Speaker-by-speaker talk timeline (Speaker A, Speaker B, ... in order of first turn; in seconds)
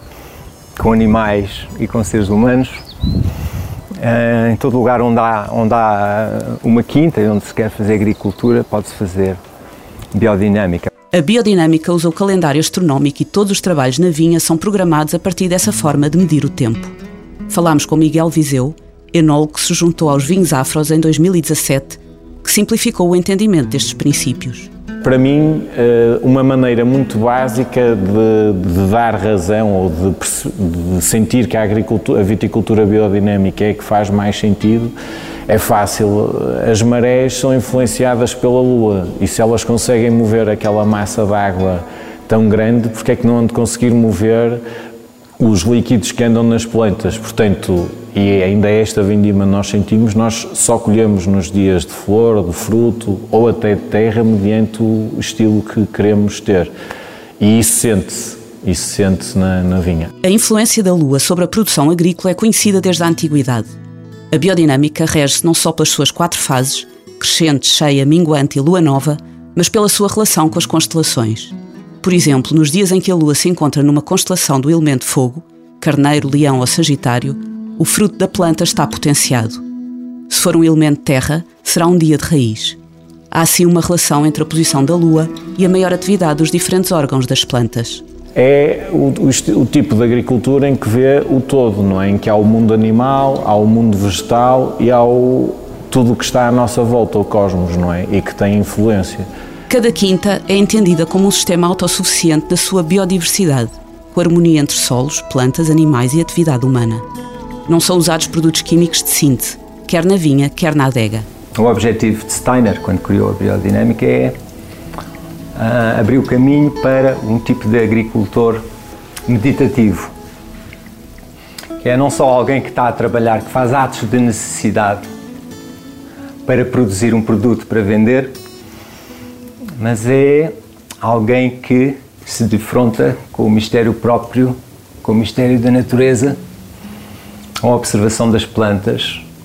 Speaker A: 0.8-2.8, 4.0-9.4, 10.1-10.9, 111.6-114.4, 115.5-118.6, 119.3-120.1, 121.8-125.1, 126.5-128.4, 129.8-136.4, 137.6-139.3
Speaker B: 11.1-16.9, 17.5-24.7, 60.2-63.7, 64.3-79.6, 80.3-82.8, 83.3-88.0, 99.7-107.0, 107.7-111.3
Speaker C: 25.0-35.0, 35.5-44.6, 45.4-56.7, 57.4-60.1, 88.4-99.3